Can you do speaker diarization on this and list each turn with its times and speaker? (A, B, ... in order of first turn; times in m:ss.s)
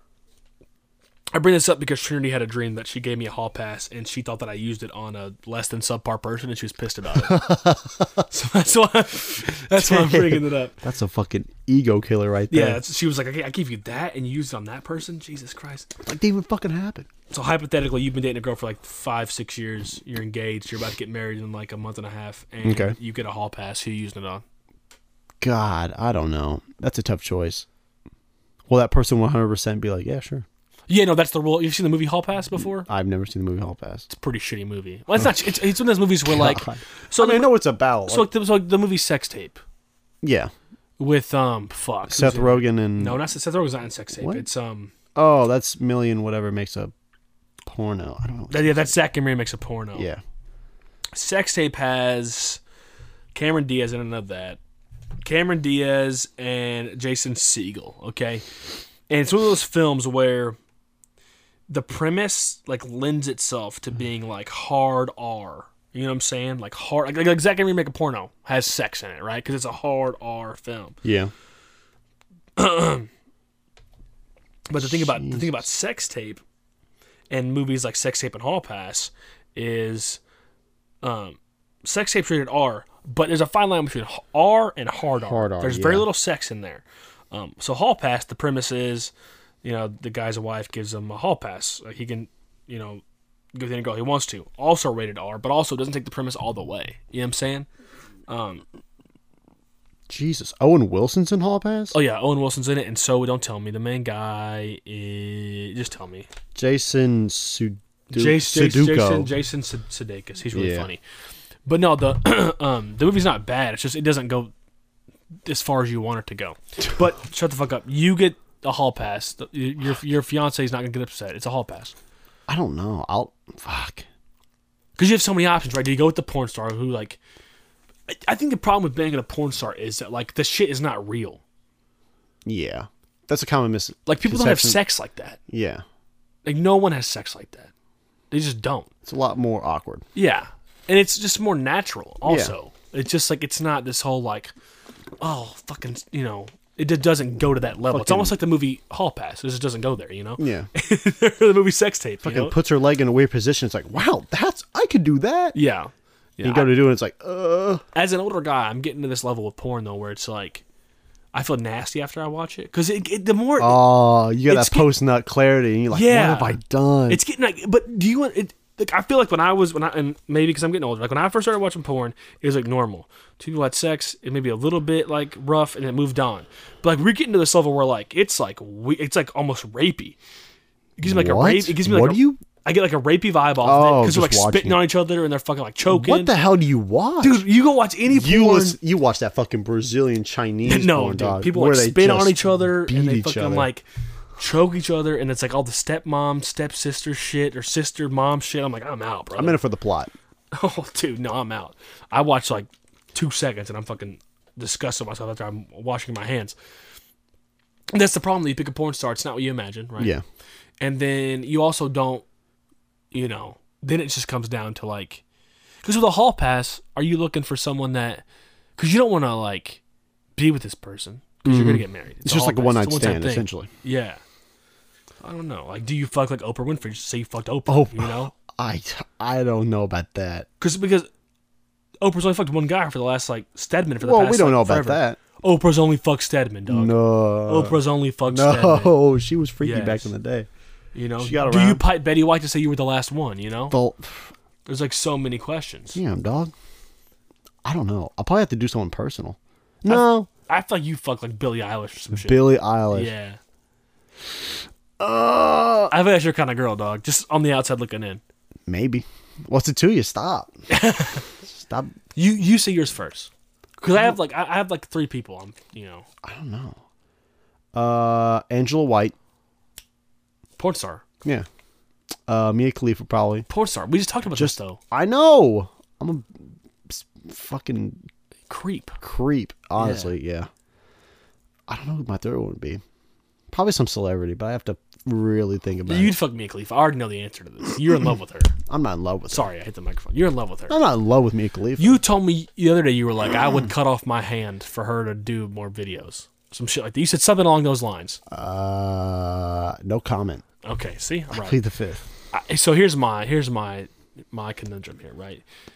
0:01.3-0:07.5 A
0:07.2-0:08.2 B
0:08.3-0:10.8 A
0:09.7-0:12.8 B
0:12.5-0:15.9 A
0:16.0-0:17.1 B
0:17.3-0:24.4 A
0:22.6-0:23.0 B
0:25.4-0:27.6 B
0:28.7-0:30.4 B
0:30.9-0:32.9 A
0:32.9-0:34.1 B
0:34.1-0:39.6 A
0:36.2-0:38.3 B
0:40.2-0:40.5 B
0:41.0-0:44.9 A
0:42.1-0:43.2 B
0:44.2-0:44.4 B
0:45.1-0:46.9 B
0:47.6-0:49.0 B
0:48.5-0:50.1 A
0:49.9-0:50.2 B
0:51.1-0:52.6 A
0:53.3-0:54.6 A
0:55.2-0:58.4 A
0:59.1-1:00.6 A
1:01.7-1:11.0 A
1:11.0-1:11.3 B
1:12.6-1:13.1 A
1:14.7-1:16.4 A
1:14.8-1:15.6 B
1:17.3-1:20.2 A
1:21.0-1:29.1 A
1:25.2-1:26.1 B
1:29.6-1:33.0 A
1:33.6-1:37.7 A
1:38.3-1:38.6 A
1:40.1-1:42.0 B
1:41.9-1:46.3 A
1:46.6-1:49.3 B
1:48.1-1:51.0 A
1:50.5-1:50.9 B
1:51.7-1:54.5 A
1:55.4-2:01.9 A
2:02.5-2:04.1 B
2:05.0-2:07.2 A
2:08.1-2:11.4 A
2:12.4-2:14.8 B
2:14.1-2:15.4 A
2:15.5-2:15.8 B
2:16.4-2:17.7 A
2:18.3-2:18.9 A
2:19.0-2:20.0 B
2:20.1-2:24.5 A
2:22.2-2:22.6 B
2:25.2-2:32.6 A
2:27.9-2:28.4 B
2:30.4-2:30.7 B
2:32.2-2:35.6 B
2:35.5-2:36.7 A
2:36.4-2:37.8 B
2:37.9-2:40.6 A
2:41.3-2:43.9 A
2:43.6-2:47.2 B
2:44.4-2:44.9 A
2:45.9-2:46.6 A
2:47.1-3:00.2 A
3:01.0-3:06.3 A
3:01.0-3:02.4 B
3:03.6-3:04.8 B
3:05.9-3:07.4 B
3:07.2-3:08.8 A
3:08.1-3:13.7 B
3:10.6-3:13.9 A
3:14.4-3:19.6 A
3:19.4-3:20.1 B
3:20.5-3:26.6 A
3:27.9-3:30.1 A
3:30.0-3:30.2 B
3:30.8-3:32.2 A
3:33.1-3:35.2 A
3:35.8-3:38.2 A
3:38.8-3:39.8 A
3:40.4-3:44.2 A
3:41.4-3:43.7 B
3:45.2-3:48.3 A
3:47.7-3:50.5 B
3:50.6-3:51.1 A
3:52.0-3:59.0 A
3:54.0-3:55.2 B
3:56.7-4:00.5 B
3:59.6-4:00.1 A
4:00.9-4:03.8 A
4:01.2-4:01.8 B
4:03.7-4:04.3 B
4:04.7-4:06.0 A
4:05.9-4:06.5 B
4:07.6-4:10.3 B
4:09.9-4:13.4 A
4:12.1-4:13.1 B
4:15.0-4:15.9 B
4:15.9-4:18.2 A
4:18.7-4:20.5 B
4:20.7-4:21.2 A
4:21.4-4:21.9 B
4:22.2-4:26.1 A
4:26.2-4:26.8 B
4:27.7-4:29.1 B
4:30.6-4:31.0 A
4:32.3-4:33.5 B
4:33.5-4:34.8 A
4:34.3-4:38.0 B
4:38.5-4:39.0 A
4:39.0-4:40.5 B
4:39.8-4:40.1 A
4:41.7-4:42.8 B
4:43.5-4:46.1 B
4:45.8-4:48.6 A
4:48.7-4:49.5 B
4:49.3-4:50.8 A
4:50.7-4:52.0 B
4:51.8-4:58.2 A
4:58.3-5:00.4 B
5:00.6-5:01.6 A
5:01.3-5:02.0 B
5:02.3-5:05.4 A